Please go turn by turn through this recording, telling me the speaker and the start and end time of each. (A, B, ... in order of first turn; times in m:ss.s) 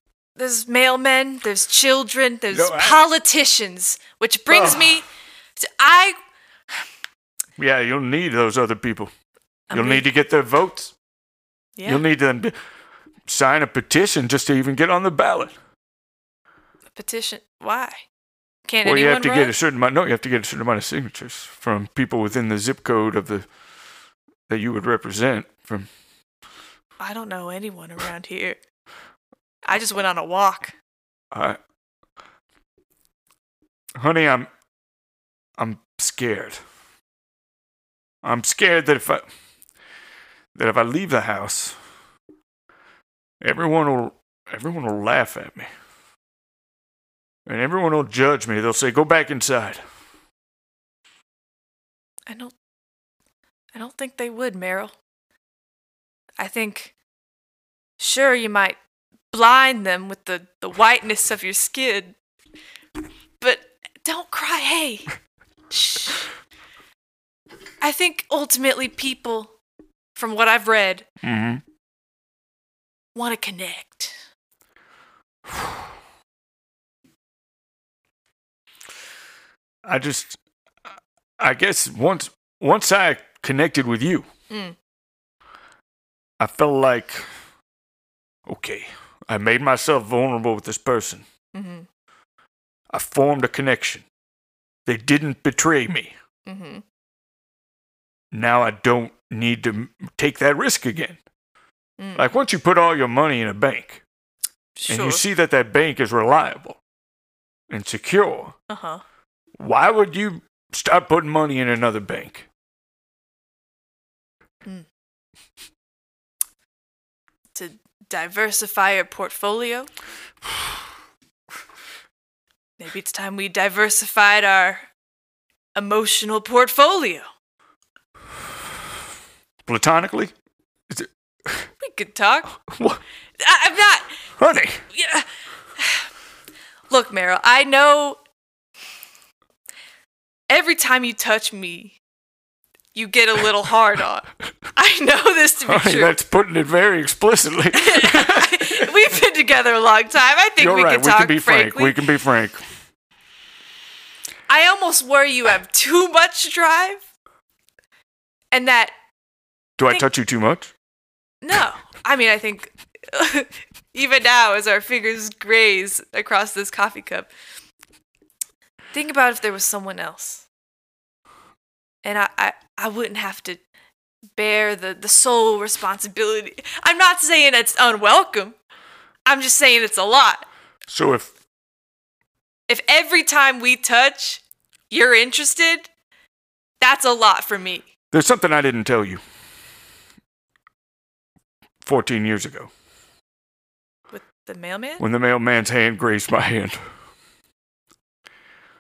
0:00.4-0:05.0 A
0:02.5-0:03.0 B
0:04.5-0:05.0 B
0:05.6-0:06.2 A
0:07.6-0:09.1 B
0:09.7-0:10.1 A
0:09.7-0:10.9 B
0:11.8-0:12.0 A
0:11.9-0:12.6 B
0:13.3-0:15.6 B
0:17.0-0:18.0 A
0:18.7-0:19.6 A
0:18.8-0:23.5 B
0:24.5-0:25.9 B
0:27.0-0:28.6 A
0:29.6-0:30.7 A
0:31.3-0:31.6 B
0:34.0-0:34.5 B
0:35.6-0:36.6 B
0:38.2-0:39.2 B
0:40.6-0:41.8 B
0:43.4-0:45.7 B
0:47.5-0:49.8 B
0:52.3-0:52.5 A
0:53.7-0:54.9 A
0:56.4-0:56.9 A
0:58.0-0:58.8 A
0:59.3-1:02.2 A
1:03.4-1:05.1 A
1:05.7-1:06.3 A
1:07.8-1:09.5 A
1:10.2-1:11.1 A
1:11.2-1:11.6 B
1:13.2-1:14.2 A
1:19.8-1:20.4 B
1:21.4-1:24.3 B
1:24.5-1:24.8 A
1:26.4-1:27.2 B
1:28.5-1:31.2 B
1:31.5-1:31.9 A
1:32.9-1:34.0 B
1:34.9-1:36.1 B
1:36.5-1:36.8 A
1:38.3-1:41.2 B
1:42.0-1:42.3 A
1:42.2-1:44.0 B
1:44.8-1:45.2 A
1:44.9-1:46.8 B
1:47.7-1:48.6 B
1:48.7-1:49.0 A
1:49.6-1:52.4 B
1:57.6-1:59.9 A
2:02.8-2:04.9 A
2:05.8-2:07.2 A
2:09.7-2:10.3 B
2:10.9-2:11.7 B
2:11.8-2:12.5 A
2:12.7-2:13.0 B
2:13.4-2:14.1 A
2:14.4-2:14.8 B
2:14.9-2:15.3 A
2:15.8-2:16.1 A
2:16.9-2:18.2 A
2:20.5-2:22.0 A
2:23.0-2:26.1 A
2:25.7-2:28.9 B
2:27.7-2:32.0 A
2:30.6-2:32.6 B
2:34.5-2:37.0 A
2:38.5-2:38.9 A
2:39.8-2:40.7 B
2:41.4-2:47.3 A
2:48.9-2:50.4 A
2:52.0-2:53.6 A
2:54.4-2:58.6 A
2:59.3-3:00.4 A
3:00.9-3:01.3 B
3:02.7-3:05.9 A
3:06.8-3:07.9 A
3:08.1-3:09.2 B
3:11.8-3:12.7 B
3:14.1-3:15.0 A
3:15.0-3:16.8 B